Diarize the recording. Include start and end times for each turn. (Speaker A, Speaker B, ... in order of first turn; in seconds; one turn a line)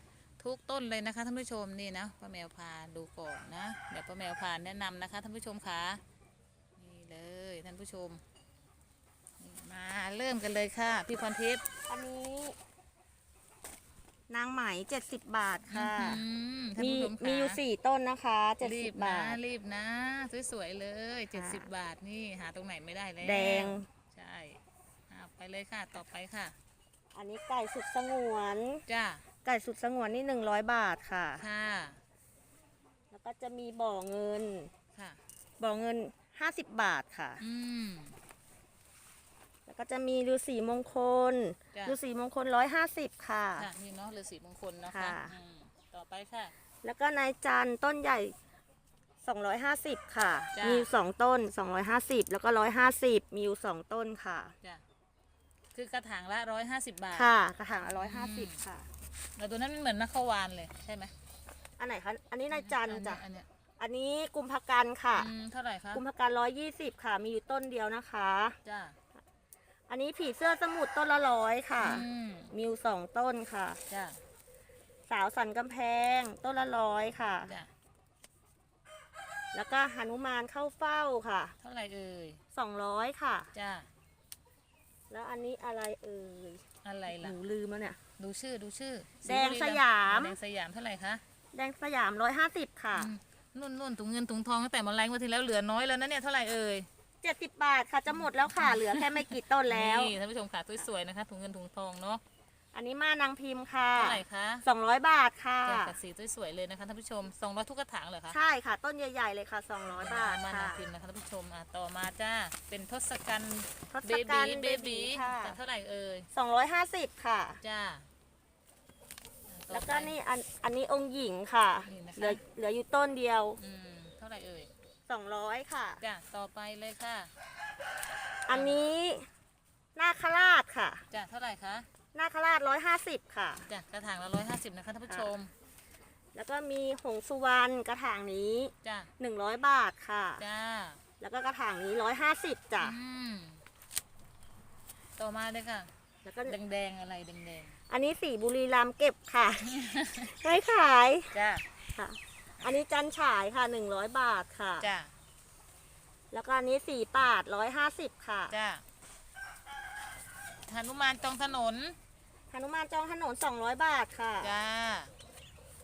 Speaker A: 0.4-6.0
Speaker A: 6.8-8.2
Speaker A: 9.4-11.6
Speaker B: 11.9-12.6
Speaker B: 14.3-16.2
Speaker A: 15.7-17.6
Speaker B: 16.8-19.4
Speaker A: 18.6-26.5
Speaker B: 21.3-21.7
Speaker B: 23.2-23.9
Speaker B: 27.1-28.8
Speaker A: 28.9-29.2
Speaker B: 29.4-31.4
Speaker A: 31.4-32.0
Speaker B: 33.1-34.7
Speaker B: 35.6-37.4
Speaker A: 37.4-38.1
Speaker B: 39.7-43.7
Speaker A: 43.6-46.5
Speaker B: 44.9-45.3
Speaker B: 46.8-48.3
Speaker B: 49.2-54.5
Speaker A: 50.5-50.9
Speaker A: 55.7-57.3
Speaker B: 57.1-58.9
Speaker A: 57.9-58.6
Speaker A: 59.4-61.1
Speaker B: 61.8-63.2
Speaker A: 62.5-63.5
Speaker B: 63.8-65.3
Speaker A: 65.2-66.0
Speaker B: 65.9-68.6
Speaker A: 68.6-69.0
Speaker B: 69.9-73.8
Speaker A: 71.8-72.5
Speaker A: 73.9-74.2
Speaker B: 75.1-77.5
Speaker B: 79.5-81.5
Speaker A: 81.6-82.4
Speaker B: 82.5-83.5
Speaker A: 83.5-83.9
Speaker B: 85.1-88.0
Speaker A: 86.8-87.3
Speaker A: 88.2-91.2
Speaker B: 89.2-90.3
Speaker B: 91.5-93.1
Speaker A: 92.9-96.9
Speaker B: 97.2-100.1
Speaker A: 98.5-102.2
Speaker B: 102.7-105.9
Speaker A: 103.9-104.6
Speaker A: 105.6-108.4
Speaker B: 108.3-110.8
Speaker A: 110.0-116.3
Speaker B: 113.9-115.6
Speaker B: 116.3-117.6
Speaker A: 117.6-118.0
Speaker A: 119.5-120.1
Speaker B: 119.7-123.6
Speaker A: 121.9-122.4
Speaker A: 123.6-124.7
Speaker B: 125.1-126.0
Speaker A: 126.0-127.3
Speaker B: 128.5-129.3
Speaker B: 129.9-131.0
Speaker A: 131.1-131.9
Speaker B: 132.1-133.7
Speaker A: 133.7-135.5
Speaker B: 136.3-140.4
Speaker A: 138.8-139.1
Speaker A: 140.4-141.0
Speaker B: 141.2-142.9
Speaker A: 142.8-143.6
Speaker A: 145.2-145.9
Speaker B: 146.2-146.6
Speaker A: 146.4-147.8
Speaker B: 147.9-149.7
Speaker A: 149.7-150.3
Speaker B: 150.3-151.3
Speaker A: 151.3-151.6
Speaker B: 151.9-154.9
Speaker A: 154.8-155.1
Speaker B: 156.3-158.5
Speaker A: 158.5-158.8
Speaker A: 160.7-161.9
Speaker B: 162.5-164.5
Speaker A: 164.4-165.1